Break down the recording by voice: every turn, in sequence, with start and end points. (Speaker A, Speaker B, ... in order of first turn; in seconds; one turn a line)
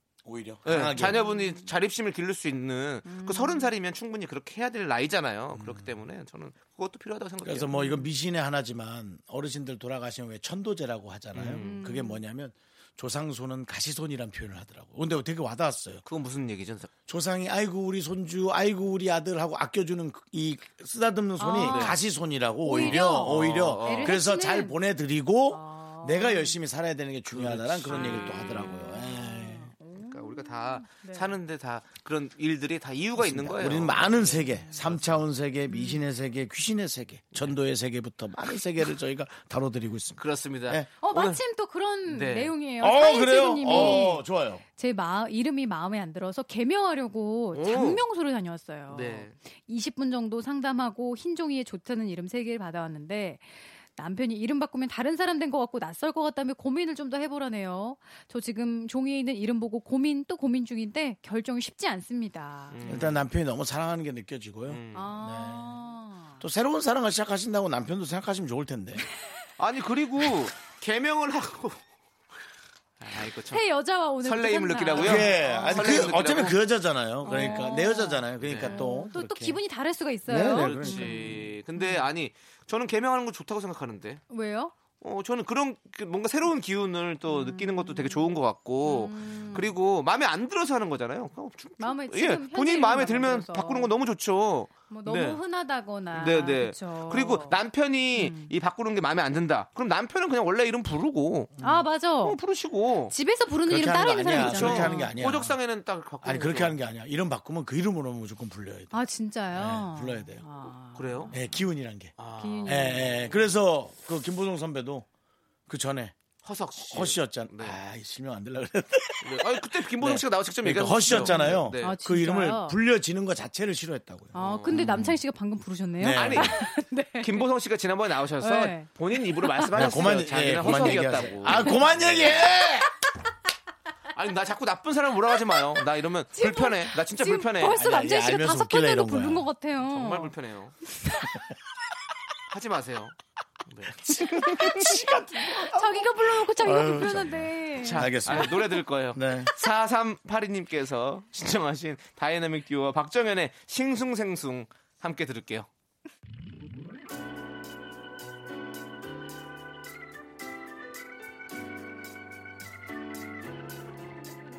Speaker A: 0.2-1.2
Speaker B: 0.6-7.8
Speaker C: 1.1-1.7
Speaker C: 3.0-3.7
Speaker A: 5.5-5.9
Speaker A: 7.4-16.0
Speaker C: 7.8-8.0
Speaker B: 11.3-11.8
Speaker C: 11.6-12.2
Speaker B: 16.0-16.9
Speaker A: 17.1-29.7
Speaker C: 21.4-22.0
Speaker B: 21.6-22.0
Speaker C: 22.6-24.8
Speaker B: 22.7-24.2
Speaker C: 25.5-26.6
Speaker B: 27.3-28.8
Speaker C: 27.9-31.4
Speaker B: 29.9-35.2
Speaker A: 33.2-40.9
Speaker C: 35.7-36.0
Speaker B: 40.2-41.4
Speaker C: 41.0-62.8
Speaker B: 42.1-42.5
Speaker A: 42.8-44.6
Speaker B: 43.6-44.1
Speaker B: 47.5-48.0
Speaker B: 48.9-49.4
Speaker B: 62.7-63.2
Speaker A: 62.8-65.8
Speaker B: 64.7-65.1
Speaker C: 64.9-66.4
Speaker A: 66.4-69.0
Speaker B: 69.6-71.8
Speaker B: 73.0-73.6
Speaker C: 73.5-76.2
Speaker B: 74.2-76.6
Speaker A: 75.0-79.6
Speaker C: 77.2-82.1
Speaker B: 77.3-77.6
Speaker B: 78.4-78.8
Speaker A: 80.2-81.4
Speaker B: 80.4-84.2
Speaker C: 84.3-84.7
Speaker B: 85.0-95.4
Speaker C: 87.2-88.3
Speaker C: 88.8-89.7
Speaker C: 91.8-93.9
Speaker C: 94.9-97.6
Speaker B: 96.1-101.5
Speaker C: 98.1-98.5
Speaker A: 101.6-101.8
Speaker C: 101.6-102.4
Speaker B: 102.2-103.1
Speaker C: 103.1-105.2
Speaker A: 103.7-105.6
Speaker B: 104.3-106.8
Speaker A: 106.2-109.0
Speaker C: 108.9-111.4
Speaker A: 109.5-110.4
Speaker B: 110.9-111.3
Speaker A: 111.3-115.0
Speaker B: 112.2-113.3
Speaker C: 112.3-113.3
Speaker A: 115.7-116.2
Speaker B: 116.4-117.8
Speaker A: 116.7-125.2
Speaker B: 119.2-122.0
Speaker C: 121.1-122.8
Speaker B: 124.3-125.0
Speaker C: 124.3-127.5
Speaker A: 126.0-126.6
Speaker B: 126.1-126.7
Speaker B: 127.2-132.4
Speaker C: 128.4-131.9
Speaker A: 129.7-132.9
Speaker B: 134.1-137.8
Speaker C: 136.3-140.3
Speaker A: 137.7-139.5
Speaker B: 139.8-140.7
Speaker B: 142.5-143.1
Speaker B: 143.7-144.9
Speaker A: 144.1-148.6
Speaker C: 144.5-148.4
Speaker B: 147.8-155.7
Speaker A: 149.1-149.5